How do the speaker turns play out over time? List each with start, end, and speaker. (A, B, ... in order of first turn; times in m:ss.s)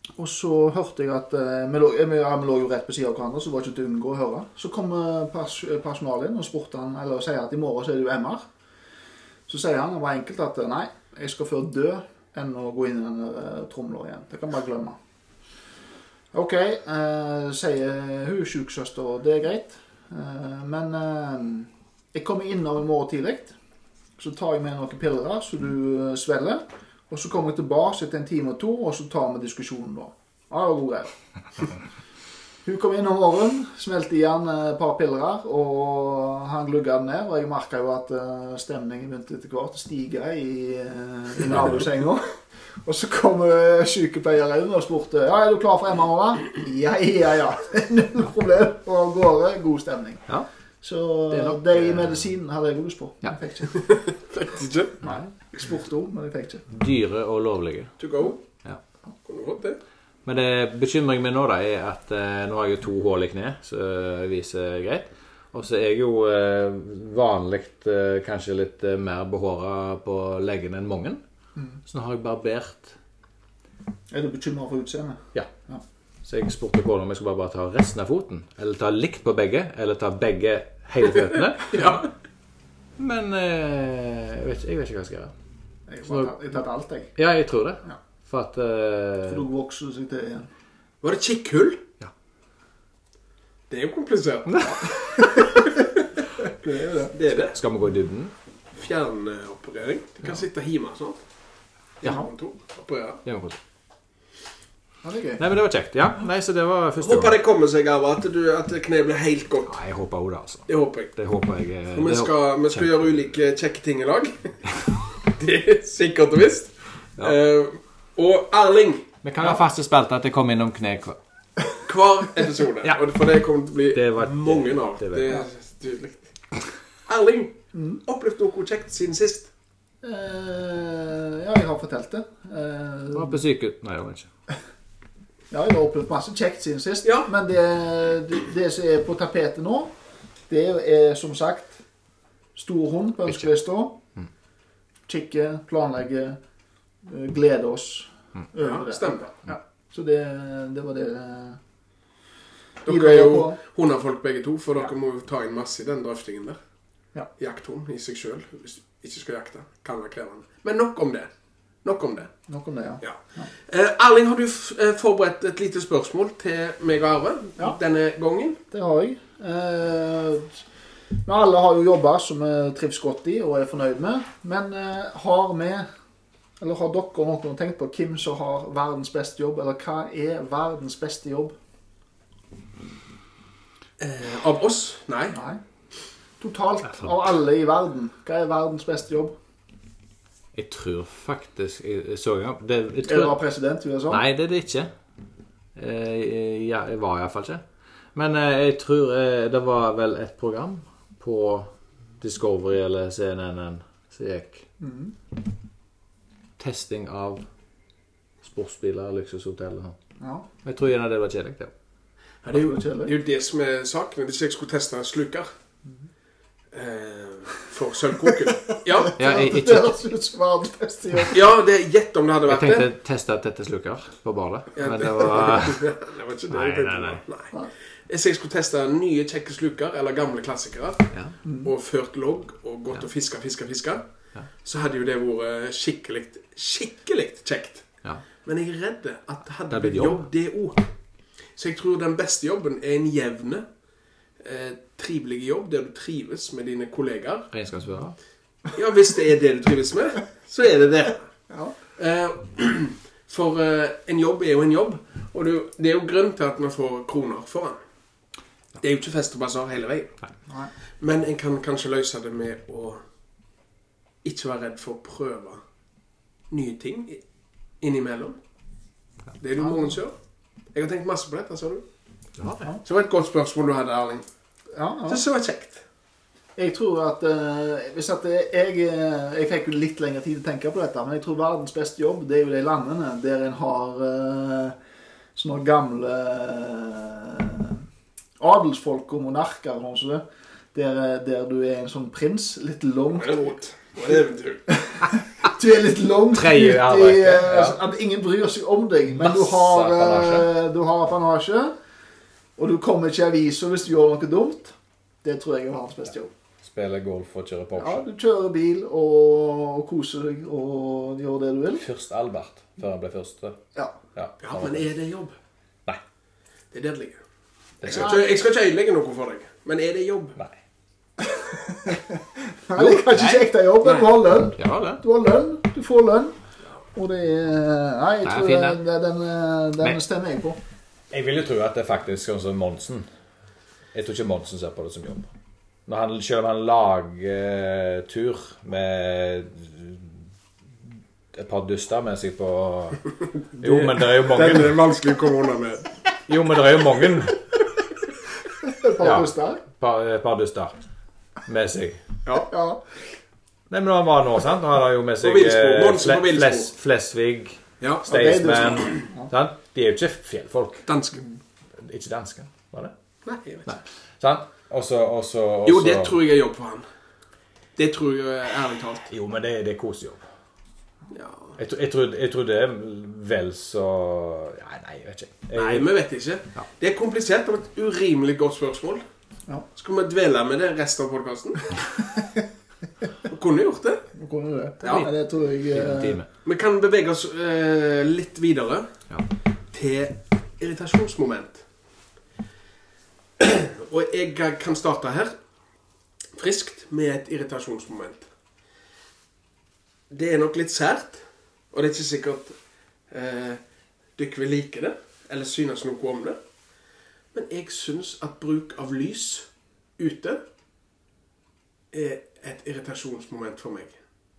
0:00.2-0:08.5 A
0:09.5-0:15.0 A
0:16.3-0:23.5 A
0:24.2-0:31.1 A
0:32.6-0:50.3 A
0:41.5-0:41.8 B
0:50.8-0:53.9 A
0:51.3-0:52.2 B
0:53.7-0:55.0 C
0:55.0-0:55.3 B
0:55.0-0:56.6 A
0:56.7-0:58.0 B
0:58.0-0:58.4 C
0:59.2-0:59.8 C
1:00.2-1:11.2 B
1:11.8-1:12.9 B
1:14.1-1:15.8 A
1:16.2-1:22.0 B
1:21.7-1:22.1 C
1:23.0-1:25.3 B
1:25.9-1:27.1 A
1:26.1-1:26.3 B
1:27.2-1:29.5 B
1:29.2-1:30.5 A
1:31.0-1:31.8 C
1:33.7-1:36.0 C
1:34.5-1:34.9 B
1:34.8-1:35.8 A
1:36.4-1:37.1 A
1:37.1-1:37.5 C
1:37.3-1:38.3 B
1:38.8-1:41.2 C
1:42.0-1:43.2 C
1:43.2-1:43.6 B
1:45.0-1:45.4 A
1:45.4-1:47.4 B
1:47.0-1:49.8 C
1:49.6-1:53.1 B
1:50.7-1:51.1 C
1:51.9-1:59.1 C
1:59.2-2:01.2 B
2:01.8-2:06.2 C
2:03.9-2:05.3 B
2:07.0-2:09.5 C
2:07.7-2:08.0 A
2:10.0-2:13.4 A
2:13.1-2:14.3 B
2:15.5-2:19.9 A
2:17.0-2:17.3 C
2:20.5-2:21.8 A
2:22.6-2:24.0 A
2:25.1-2:26.4 A
2:27.0-2:31.6 A
2:28.6-2:29.3 C
2:32.8-2:36.6 C
2:32.8-2:33.6 A
2:37.4-2:41.3 C
2:41.8-2:42.3 C
2:42.5-2:43.5 A
2:43.0-2:48.6 C
2:48.7-2:50.6 A
2:51.2-2:55.9 A
2:56.6-3:01.5 A
3:04.0-3:05.4 C
3:05.3-3:05.6 A
3:06.4-3:09.3 A
3:10.5-3:13.4 B
3:13.0-3:14.2 A
3:14.1-3:14.9 B
3:15.7-3:24.6 B
3:24.8-3:25.1 A
3:26.6-3:27.4 B
3:28.4-3:30.0 B
3:30.2-3:30.4 A
3:30.6-3:31.7 B
3:32.4-3:35.5 C
3:32.5-3:33.1 A
3:36.7-3:39.2 C
3:38.7-3:41.5 A
3:39.2-3:40.0 B
3:41.3-3:42.9 C
3:42.5-3:45.8 B
3:44.8-3:47.6 C
3:46.5-3:47.2 B
3:48.1-3:54.0 C
3:51.4-3:51.7 A
3:54.6-3:57.9 C
3:58.4-4:00.8 C
3:59.7-4:00.2 B
4:01.5-4:03.6 C
4:04.4-4:07.5 C
4:07.5-4:08.2 B
4:08.7-4:11.3 C
4:12.0-4:17.8 C
4:18.8-4:20.2 C
4:20.5-4:20.7 A
4:21.0-4:23.0 C
4:24.2-4:25.6 C
4:26.5-4:27.2 C
4:27.8-4:28.4 C
4:29.4-4:30.1 C
4:29.6-4:29.9 A
4:30.7-4:31.8 C
4:32.4-4:32.7 B
4:32.8-4:34.2 C
4:34.7-4:35.2 A
4:35.1-4:35.8 C
4:36.6-4:44.8 A
4:45.3-4:47.8 A
4:48.4-4:53.5 A
4:53.2-4:54.7 C
4:54.8-5:01.7 A
4:56.3-4:57.8 B
4:59.1-5:00.5 B
5:02.6-5:06.3 A
5:06.6-5:08.0 B
5:07.8-5:11.8 A
5:11.8-5:13.6 B
5:14.2-5:14.9 B
5:14.4-5:15.4 C
5:16.7-5:17.2 C
5:17.8-5:18.1 B
5:17.8-5:20.4 C
5:17.9-5:18.4 A
5:21.2-5:26.4 A
5:22.8-5:23.5 B
5:24.5-5:25.0 B
5:26.9-5:30.6 A
5:28.2-5:28.8 B
5:31.1-5:33.1 B
5:33.9-5:35.3 B
5:35.9-5:40.1 B
5:41.3-5:43.0 B
5:43.6-5:44.8 B
5:43.6-5:45.9 C
5:46.3-5:47.4 B
5:48.6-5:49.6 A
5:49.0-5:50.8 B
5:51.4-5:52.0 B
5:52.5-5:52.8 A
5:53.7-6:00.9 B
5:55.2-5:56.7 C
5:58.0-5:59.3 A
6:00.9-6:01.2 C
6:01.8-6:02.9 B
6:03.2-6:03.8 C
6:03.6-6:06.2 B
6:05.6-6:06.8 C
6:07.8-6:09.1 C
6:09.1-6:10.2 B
6:11.1-6:11.6 C
6:11.6-6:15.9 B
6:15.5-6:19.0 C
6:19.8-6:21.8 C
6:23.3-6:24.1 C
6:24.1-6:26.2 A
6:24.8-6:25.1 B
6:25.7-6:26.3 B
6:26.4-6:28.9 C
6:29.7-6:31.6 C
6:33.4-6:35.3 C
6:36.3-6:38.3 C
6:40.1-6:42.6 C
6:43.1-6:43.6 C
6:44.2-6:46.4 C
6:47.3-6:49.5 C
6:50.0-6:50.4 C
6:51.9-6:54.0 C